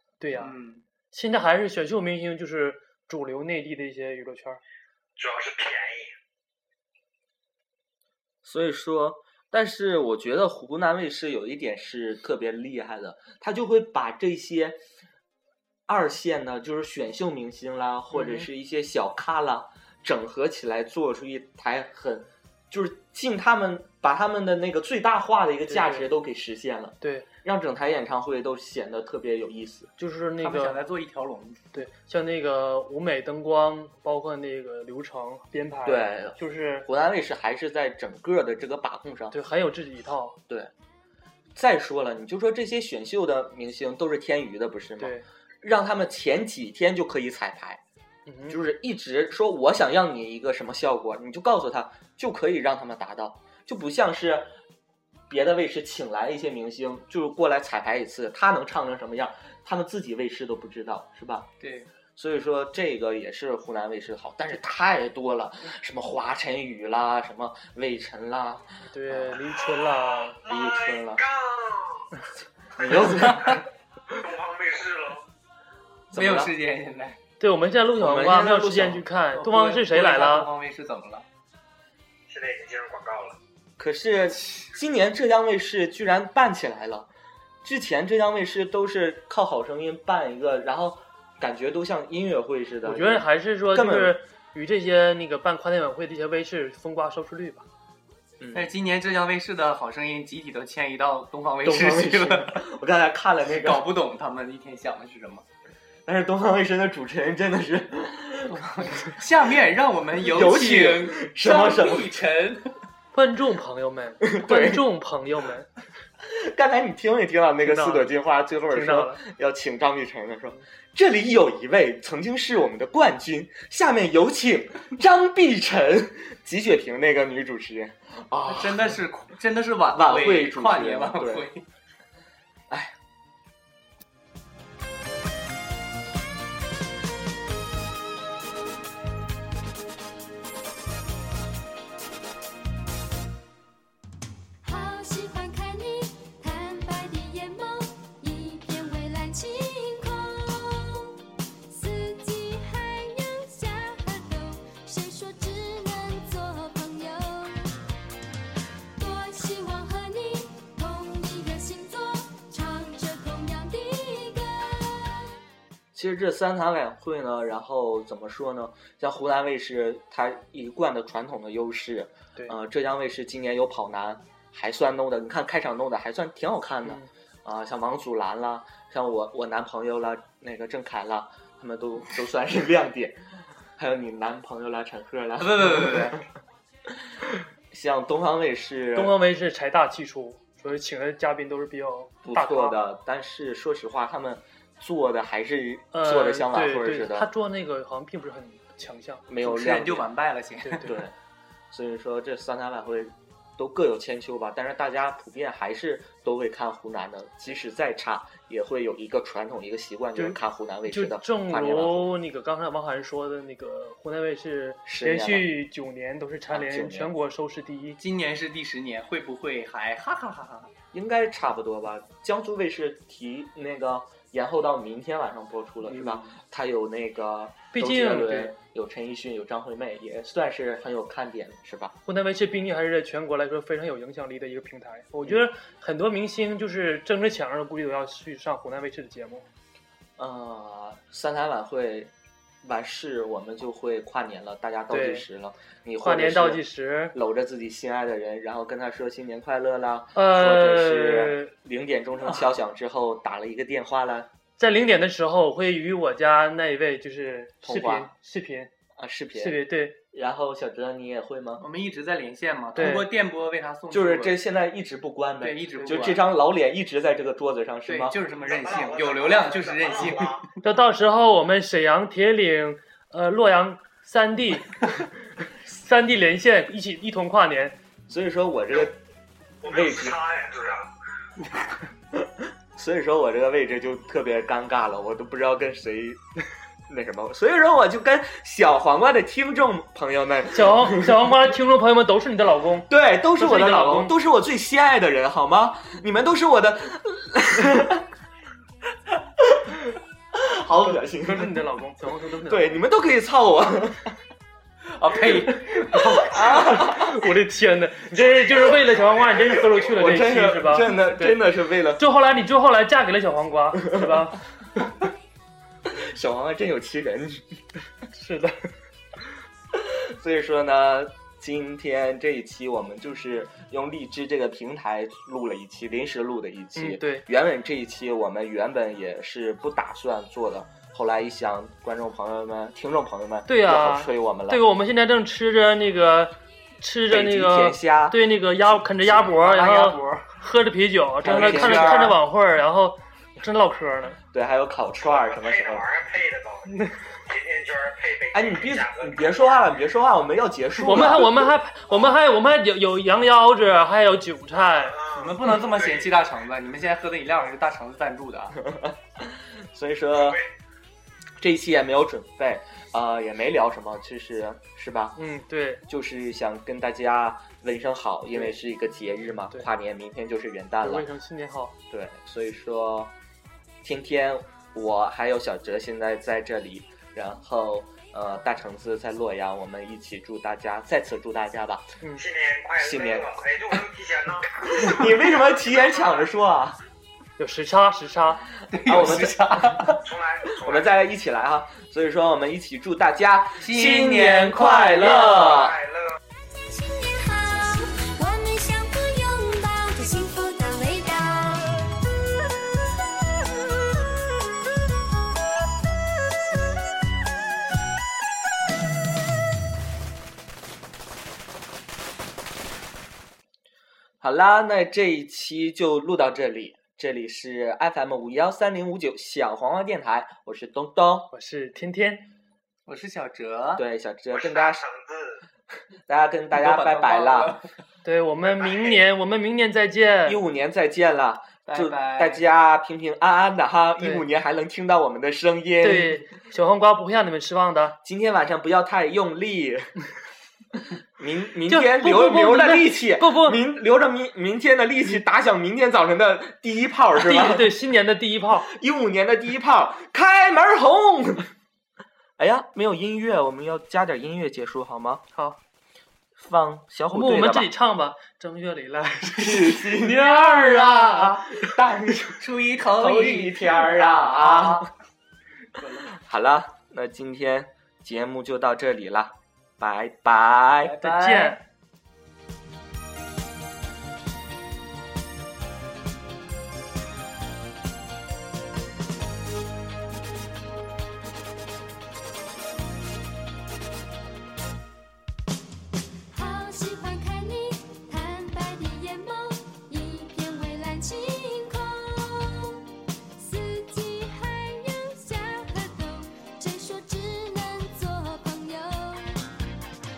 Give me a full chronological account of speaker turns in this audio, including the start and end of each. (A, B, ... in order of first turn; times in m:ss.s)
0:00.2-0:00.5 A
0:00.3-0:00.8 B
0:01.1-0:04.6 A
0:05.2-0:06.1 C
0:08.4-0:14.8 D
0:15.9-0:29.9 D
0:18.1-0:18.5 A
0:25.7-0:26.0 A
0:27.0-0:27.3 A
0:30.0-0:30.8 A
0:30.4-0:31.8 B
0:31.7-0:36.9 A
0:35.8-0:39.4 D
0:39.3-0:40.4 A
0:41.6-0:47.8 D
0:45.0-0:45.2 A
0:48.2-0:48.6 A
0:48.5-0:54.5 D
0:55.3-1:01.5 D
1:01.6-1:01.9 B
1:02.2-1:09.5 D
1:08.9-1:10.4 A
1:10.4-1:12.1 C
1:10.4-1:11.2 D
1:12.8-1:13.6 D
1:12.8-1:13.6 C
1:13.1-1:13.5 B
1:14.2-1:15.2 C
1:16.1-1:16.5 D
1:16.1-1:17.2 B
1:17.4-1:20.5 A
1:18.0-1:19.0 D
1:19.3-1:21.2 B
1:22.3-1:23.4 C
1:23.8-1:27.1 D
1:27.6-1:34.2 D
1:32.8-1:37.6 A
1:38.4-1:38.7 D
1:38.5-1:42.6 B
1:41.6-1:43.9 D
1:43.5-1:45.4 B
1:46.0-1:48.6 D
1:48.5-1:52.8 B
1:50.2-1:52.2 D
1:53.1-1:55.7 A
1:54.2-1:54.8 D
1:56.2-2:09.0 D
1:57.6-1:58.1 A
1:58.7-1:59.2 A
2:08.5-2:11.6 B
2:09.9-2:11.5 D
2:12.7-2:12.9 D
2:24.6-2:37.6 E
2:39.0-2:45.2 E
2:45.9-3:06.2 D
3:05.4-3:06.2 B
3:07.2-3:09.2 D
3:08.9-3:12.8 A
3:12.2-3:17.3 D
3:15.9-3:19.3 A
3:19.3-3:20.1 D
3:19.4-3:20.9 B
3:20.6-3:21.0 A
3:20.8-3:21.1 D
3:21.7-3:32.1 D
3:30.2-3:38.0 A
3:34.8-3:35.5 D
3:36.5-3:37.1 D
3:38.0-3:40.7 B
3:40.9-3:52.0 D
3:45.8-3:46.4 B
3:47.7-3:48.5 A
3:52.0-3:59.5 A
4:00.2-4:02.1 D
4:02.6-4:14.3 D
4:04.9-4:05.2 A
4:06.0-4:07.1 A
4:10.1-4:11.5 A
4:14.6-4:18.7 A
4:17.6-4:18.1 D
4:19.0-4:21.6 D
4:19.3-4:20.0 A
4:21.6-4:24.4 B
4:22.7-4:23.1 A
4:22.8-4:23.0 D
4:23.9-4:28.2 D
4:25.4-4:26.2 B
4:27.9-4:30.5 B
4:28.4-4:30.4 C
4:30.6-4:34.8 A
4:35.7-4:37.8 A
4:38.1-4:39.0 D
4:39.6-4:40.9 C
4:39.6-4:40.2 D
4:42.1-4:46.2 D
4:46.9-4:51.3 D
4:50.5-4:54.1 A
4:52.9-4:58.0 D
4:59.4-5:01.6 D
5:01.1-5:02.8 A
5:02.5-5:04.2 D
5:04.9-5:06.2 B
5:05.3-5:07.2 D
5:05.9-5:11.4 A
5:08.1-5:10.0 C
5:09.9-5:12.0 D
5:12.0-5:14.4 A
5:13.8-5:14.3 D
5:15.8-5:17.6 D
5:18.1-5:18.6 A
5:19.7-5:34.6 D
5:26.8-5:27.2 A
5:33.5-5:44.2 A
5:37.1-5:40.2 D
5:41.2-5:42.2 D
5:44.3-5:45.9 D
5:45.0-5:49.7 C
5:48.3-5:51.5 D
5:50.8-5:55.0 A
5:54.9-5:56.1 C
5:55.1-5:58.6 B
5:58.6-6:00.4 D
6:00.1-6:00.4 C
6:01.4-6:05.2 D
6:05.2-6:05.8 A
6:05.9-6:11.1 D
6:10.8-6:11.8 A
6:11.9-6:13.1 D
6:13.8-6:21.9 D
6:22.2-6:26.2 C
6:22.8-6:23.8 D
6:24.6-6:26.8 D
6:27.4-6:28.4 A
6:28.7-6:30.0 B
6:28.8-6:29.6 D
6:30.0-6:30.9 C
6:30.6-6:35.8 D
6:33.6-6:35.3 B
6:35.3-6:36.2 C
6:36.7-6:41.8 E
6:54.2-7:01.3 D
7:01.3-7:02.3 A
7:02.8-7:03.8 B
7:03.8-7:04.8 D
7:04.3-7:05.4 C
7:06.1-7:07.6 D
7:06.5-7:07.7 B
7:08.0-7:10.4 A
7:08.5-7:09.0 C
7:10.2-7:16.2 D
7:11.7-7:12.4 B
7:14.0-7:14.2 A
7:15.8-7:18.0 A
7:18.0-7:19.9 D
7:21.2-7:27.7 D
7:21.7-7:23.6 A
7:27.1-7:28.7 A
7:28.6-7:31.5 D
7:32.4-7:35.2 D
7:35.3-7:35.6 A
7:36.4-7:37.7 D
7:37.1-7:41.2 A
7:39.4-7:42.4 D
7:42.4-7:44.9 B
7:42.9-7:44.9 D
7:45.8-7:46.1 B
7:46.1-7:51.0 D
7:50.8-7:51.6 B
7:51.0-7:51.6 A
8:06.3-8:12.8 E
8:13.3-8:19.3 E